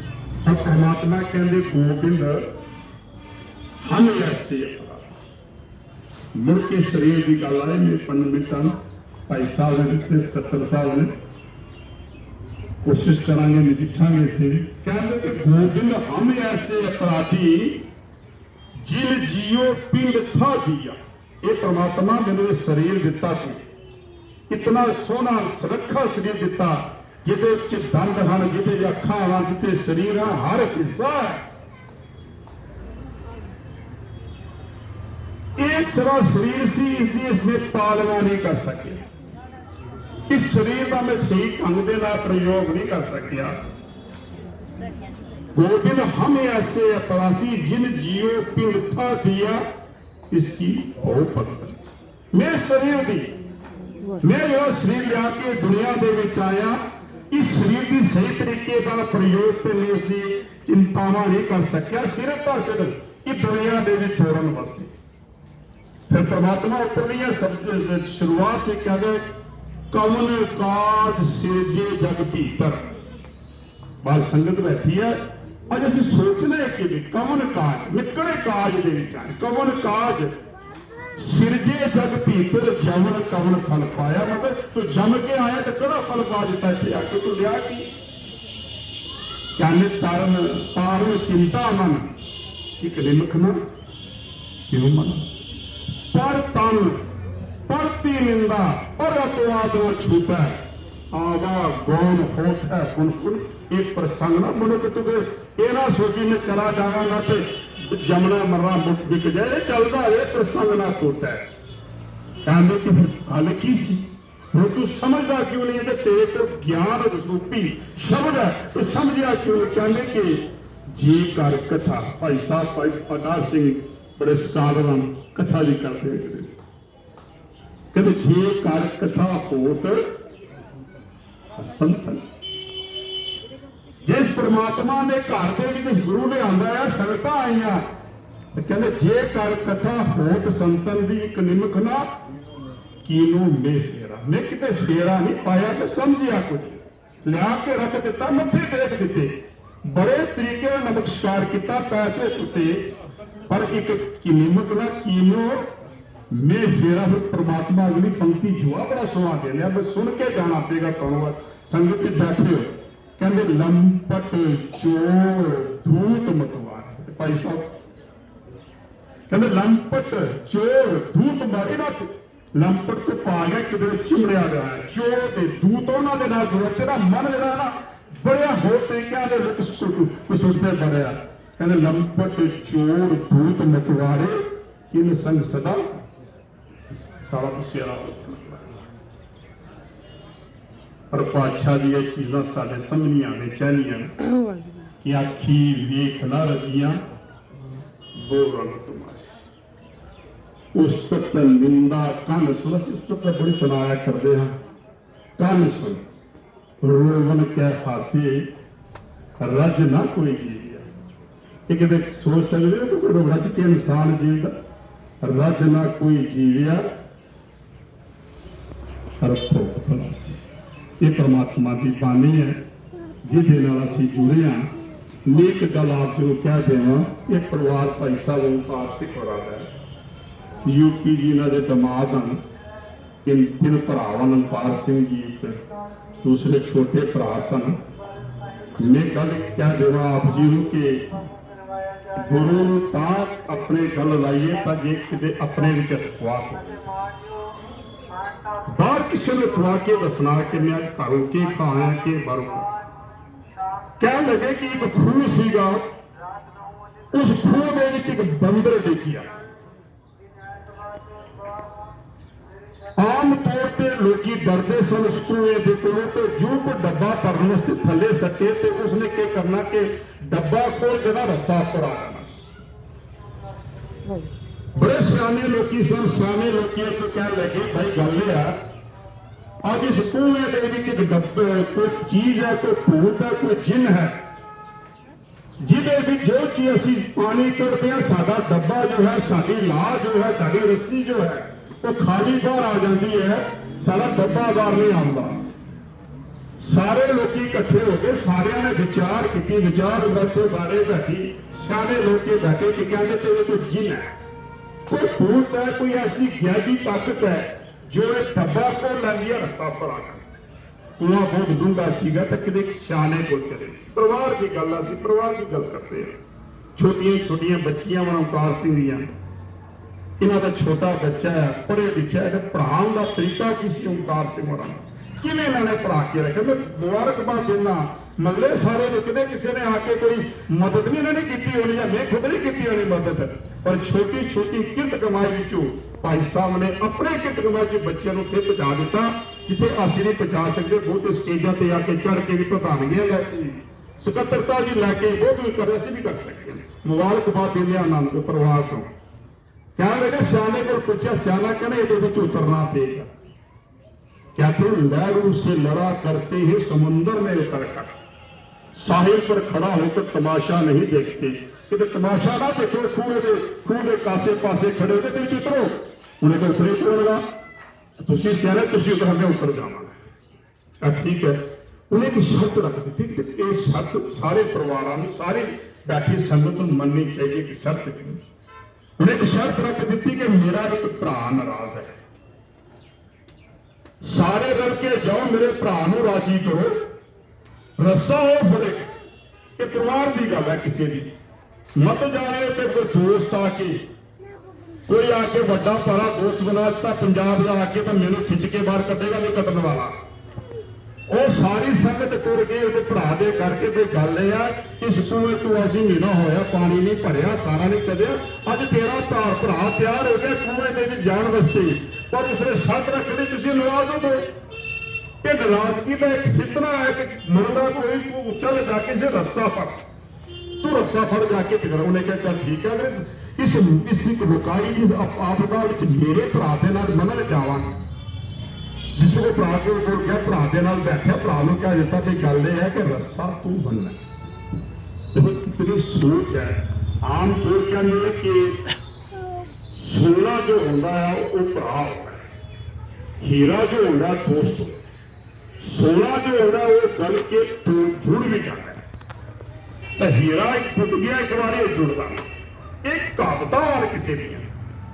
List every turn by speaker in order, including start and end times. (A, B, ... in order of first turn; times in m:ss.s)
0:00.4-0:02.5 A
0:03.8-0:05.2 A
0:06.3-0:08.8 A
0:09.3-0:11.1 A
0:12.8-0:17.8 A
0:18.8-0:23.6 A
0:24.5-0:31.4 A
0:35.6-0:39.0 A
0:40.3-0:43.6 A
0:45.5-0:49.6 A
0:50.3-0:53.3 A
0:54.2-1:04.9 A
1:06.1-1:09.2 A
1:09.9-1:12.8 A
1:14.0-1:20.4 A
1:21.2-1:27.9 A
1:29.6-1:32.1 A
1:32.8-1:33.6 A
1:34.7-1:35.3 A
1:36.1-1:37.0 A
1:37.7-1:40.6 A
1:41.1-1:51.4 A
1:52.4-2:06.6 A
2:07.9-2:10.1 A
2:11.6-2:12.3 A
2:14.0-2:17.8 A
2:18.5-2:22.1 A
2:23.0-2:32.8 A
2:33.5-2:35.7 A
2:36.3-2:47.7 A
2:49.3-3:06.0 A
3:06.9-3:08.8 A
3:11.1-3:14.2 A
3:15.0-3:17.0 A
3:18.1-3:19.4 A
3:20.7-3:24.5 A
3:25.4-3:26.0 A
3:26.8-3:28.5 A
3:29.4-3:30.9 A
3:31.7-3:34.5 A
3:35.2-3:36.8 A
3:39.2-3:40.4 A
3:41.0-3:42.6 A
3:43.2-3:44.7 A
3:45.2-3:49.7 A
3:50.6-3:52.4 A
3:53.2-3:55.6 A
3:56.2-3:57.8 A
3:58.8-4:01.2 A
4:02.1-4:06.8 A
4:08.7-4:12.7 A
4:14.0-4:15.8 A
4:17.1-4:19.3 A
4:23.0-4:32.5 A
4:34.7-4:38.6 A
4:39.6-4:44.1 A
4:45.6-4:55.4 A
4:56.6-5:04.1 A
5:04.9-5:10.4 A
5:11.0-5:16.2 A
5:16.8-5:19.1 A
5:20.2-5:48.9 A
5:49.8-5:53.1 A
5:54.3-5:57.9 A
5:58.7-6:07.2 A
6:08.0-6:09.9 A
6:10.8-6:18.2 A
6:19.0-6:22.0 A
6:24.0-6:26.8 A
6:27.8-6:28.9 A
6:29.6-6:31.1 A
6:31.8-6:33.8 A
6:34.9-6:39.9 A
6:41.1-6:54.3 A
6:55.2-6:59.8 A
7:00.6-7:07.8 A
7:08.9-7:14.0 A
7:15.1-7:18.6 A
7:19.7-7:22.2 A
7:23.2-7:24.8 A
7:25.6-7:28.8 A
7:30.0-7:32.3 A
7:32.8-7:34.5 A